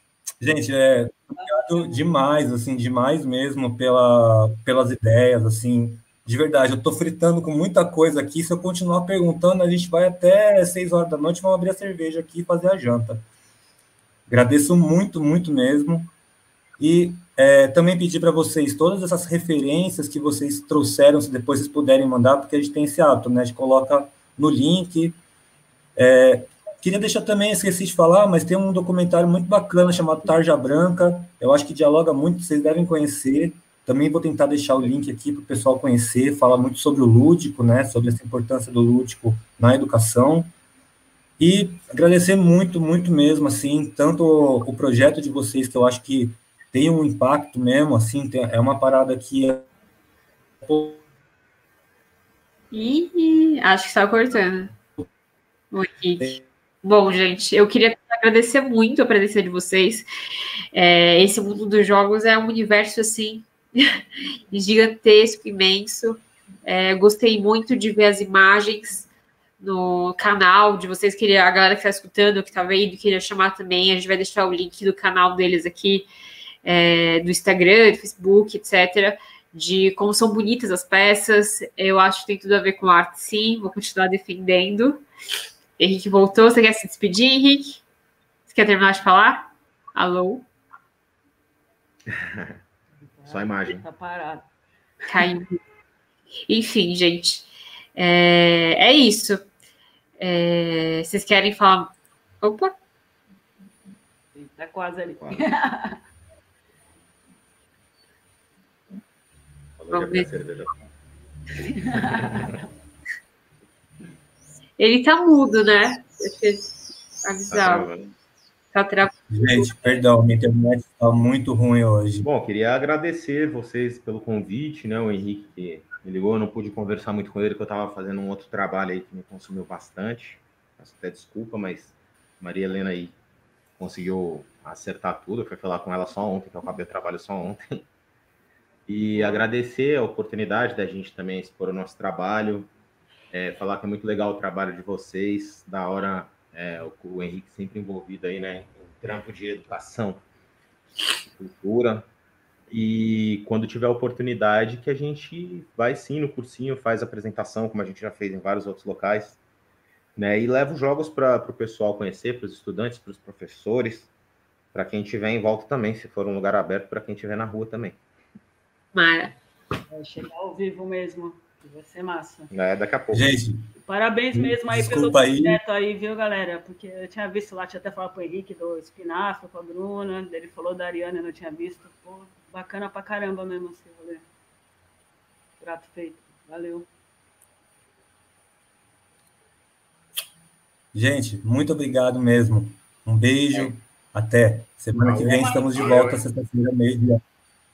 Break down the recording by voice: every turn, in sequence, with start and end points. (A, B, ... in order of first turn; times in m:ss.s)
0:00.4-0:13.2 A
0:01.4-0:01.9 B
0:14.3-0:16.1 A
0:16.8-0:25.2 A
0:26.0-0:40.5 A
0:41.4-0:49.7 A
0:50.6-0:51.0 A
0:52.7-0:54.8 C
0:55.7-1:00.1 C
1:00.7-1:04.0 C
1:04.5-1:09.1 C
1:09.6-1:16.1 C
1:16.6-1:25.0 C
1:25.8-1:27.8 C
1:28.5-1:30.5 C
1:32.1-1:32.6 D
1:33.0-1:34.5 B
1:33.3-1:33.8 D
1:35.1-1:35.6 C
1:36.5-1:39.4 C
1:40.2-1:42.7 C
1:44.4-1:46.0 B
1:49.8-1:50.7 D
1:49.9-1:50.3 C
1:51.6-1:52.7 B
1:52.0-1:52.6 D
1:54.8-1:56.6 C
1:57.2-1:57.9 C
1:57.5-1:58.1 D
1:58.7-2:00.0 C
1:59.3-2:02.3 A
2:02.2-2:13.2 D
2:13.8-2:17.9 D
2:18.9-2:22.7 D
2:19.2-2:19.4 B
2:23.3-2:30.2 D
2:31.4-2:32.1 D
2:32.7-2:39.4 D
2:40.2-2:44.1 D
2:44.7-2:48.0 D
2:49.0-2:49.3 C
2:49.9-2:52.5 B
2:52.5-2:53.3 D
2:53.1-2:53.7 A
2:53.8-3:04.3 B
2:54.3-2:55.6 A
3:05.6-3:06.9 B
3:10.9-3:17.2 A
3:15.0-3:16.2 D